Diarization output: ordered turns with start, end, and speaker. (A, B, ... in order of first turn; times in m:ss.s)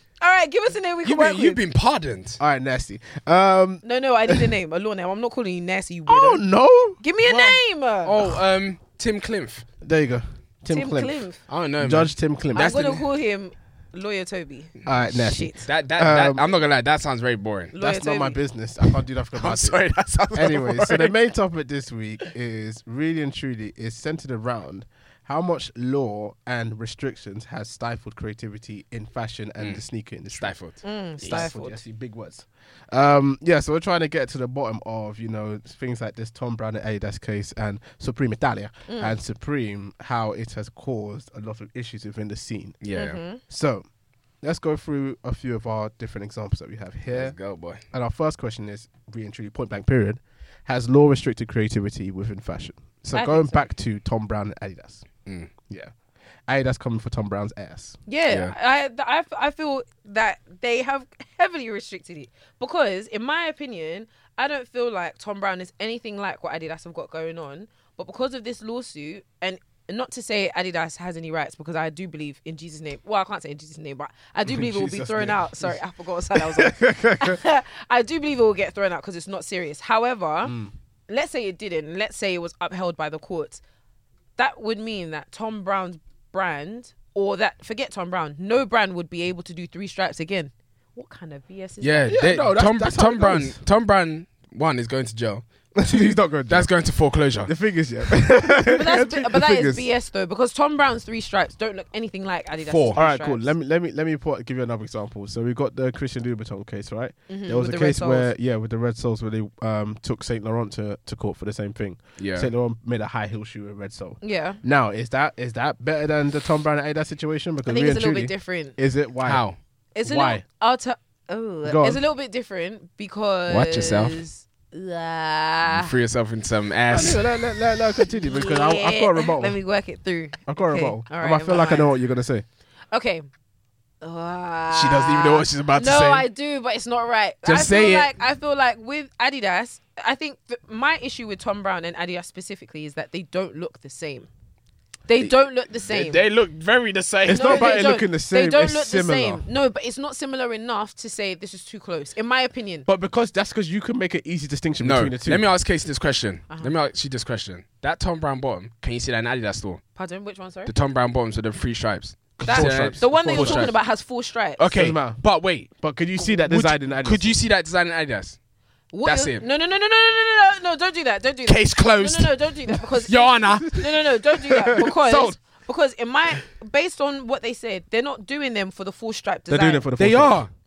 0:00.2-0:01.6 A
0:01.0-0:02.4 B
0:02.4-0:04.5 C
0:03.8-0:06.4 A
0:06.1-0:07.0 C
0:07.0-0:08.2 A
0:07.3-0:09.6 B
0:09.8-0:11.2 C
0:10.7-0:11.4 A
0:11.5-0:12.9 B
0:11.8-0:13.0 C
0:12.5-0:15.6 A
0:14.8-0:16.4 C
0:15.6-0:17.7 B
0:17.7-0:18.4 A
0:17.8-0:19.8 C
0:19.3-0:21.1 B
0:20.3-0:30.5 C
0:29.6-0:31.5 B
0:30.8-0:31.8 A
0:31.2-0:42.8 C
0:38.9-0:39.2 A
0:42.8-0:43.2 B
0:42.9-0:43.4 A
0:43.5-0:43.8 C
0:44.4-0:47.3 C
0:47.1-0:47.8 B
0:47.9-0:55.0 C
0:53.1-0:53.7 A
0:55.2-0:55.5 B
0:56.5-0:58.0 C
0:58.1-1:20.5 A
0:58.3-0:58.5 B
1:14.4-1:15.8 C
1:16.3-1:17.4 C
1:20.4-1:20.7 C
1:21.1-1:23.6 A
1:24.4-1:32.2 A
1:31.8-1:37.5 B
1:32.1-1:33.6 C
1:35.8-1:36.7 C
1:37.4-1:39.8 C
1:38.7-1:43.5 A
1:42.6-1:43.0 B
1:42.9-1:59.4 C
1:47.3-1:48.3 A
1:52.2-1:52.5 B
1:54.2-1:54.6 A
1:57.6-1:58.8 A
1:59.2-1:59.6 B
1:59.9-2:05.9 A
2:00.0-2:00.4 C
2:01.6-2:02.0 C
2:03.5-2:04.2 B
2:05.6-2:07.2 B
2:06.9-2:09.6 C
2:08.2-2:11.9 A
2:10.5-2:12.4 C
2:12.9-2:13.2 A
2:14.0-2:24.3 A
2:14.7-2:16.2 B
2:17.4-2:18.1 B
2:25.1-2:26.2 A
2:25.9-2:27.8 B
2:27.2-2:29.4 C
2:27.3-2:32.9 A
2:32.8-2:35.4 C
2:34.8-2:39.8 B
2:40.0-2:40.7 A
2:40.6-2:43.8 B
2:42.4-2:43.7 C
2:42.4-2:44.7 A
2:44.6-2:45.7 B
2:44.7-2:45.2 C
2:45.7-2:47.4 C
2:46.4-2:48.4 B
2:48.9-2:59.9 A
2:49.0-2:49.4 B
2:51.4-2:54.0 B
2:54.5-2:55.4 C
2:59.5-3:00.4 C
3:00.0-3:00.5 B